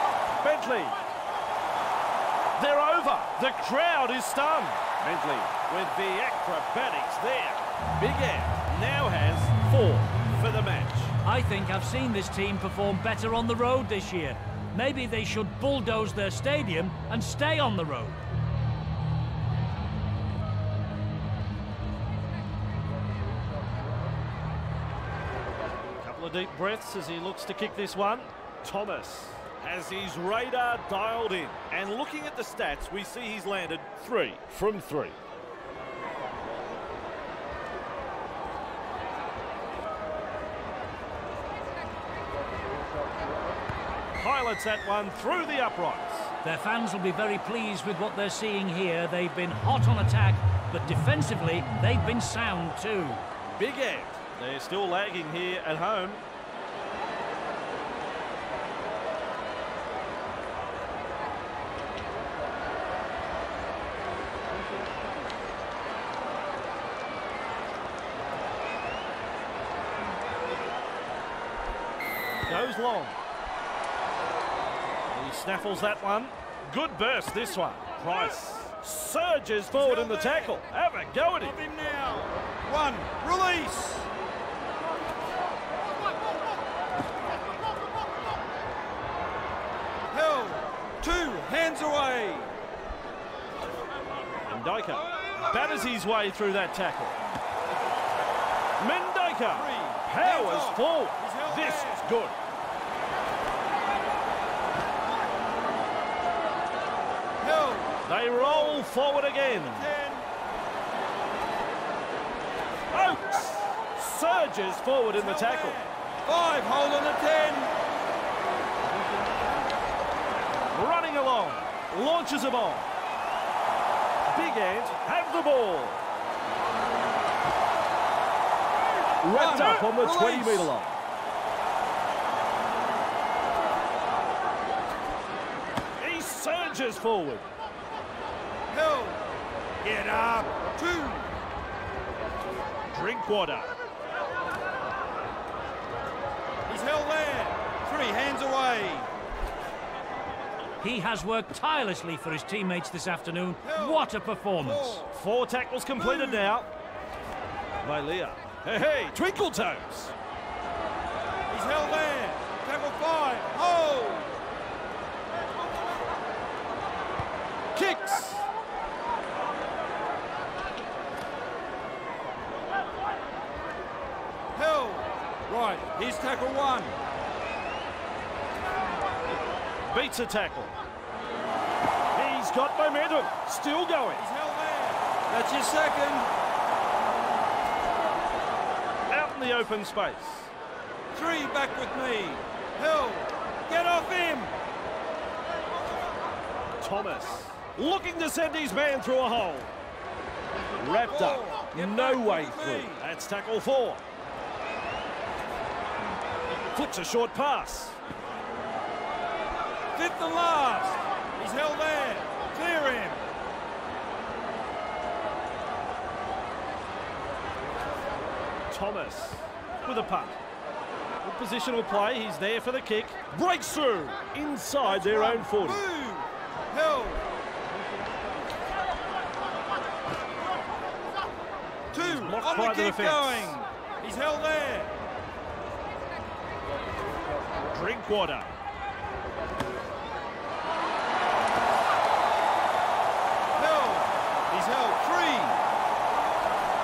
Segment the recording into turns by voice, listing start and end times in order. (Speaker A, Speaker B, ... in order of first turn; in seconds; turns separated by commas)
Speaker A: 0.4-1.1, Speaker A: 2.6-11.2, Speaker B: 11.2-18.2, Speaker A: 26.0-35.2, Speaker A: 44.2-46.3, Speaker B: 46.4-53.2, Speaker A: 53.6-56.2, Speaker A: 72.5-73.2, Speaker A: 75.1-81.6, Speaker C: 79.7-80.6, Speaker C: 81.4-84.1, Speaker C: 90.1-92.6, Speaker A: 94.4-97.2, Speaker A: 98.8-102.3, Speaker C: 99.5-102.1, Speaker C: 107.4-110.3, Speaker A: 108.0-109.9, Speaker A: 112.9-115.8, Speaker C: 115.1-117.7, Speaker A: 120.7-122.9, Speaker A: 124.3-126.0, Speaker A: 129.2-131.0, Speaker C: 129.3-130.7, Speaker A: 136.0-137.5, Speaker C: 138.7-139.2, Speaker C: 139.8-141.4, Speaker A: 142.9-143.7, Speaker C: 146.7-149.1, Speaker B: 150.8-155.0, Speaker C: 153.6-155.1, Speaker A: 155.1-156.7, Speaker C: 156.0-156.6, Speaker A: 157.8-160.2, Speaker C: 161.5-164.4, Speaker A: 167.7-168.5, Speaker C: 174.6-176.9, Speaker A: 179.9-180.7, Speaker A: 182.2-184.3, Speaker C: 184.2-186.3, Speaker A: 189.1-190.5, Speaker C: 191.1-194.6, Speaker A: 196.8-199.7, Speaker A: 200.8-204.0, Speaker C: 201.0-203.0, Speaker A: 206.7-208.0, Speaker C: 209.9-213.2, Speaker A: 218.7-220.4, Speaker A: 221.2-225.8, Speaker C: 224.8-227.2, Speaker C: 231.9-235.0, Speaker A: 231.9-233.6, Speaker A: 237.7-238.6, Speaker C: 243.6-245.6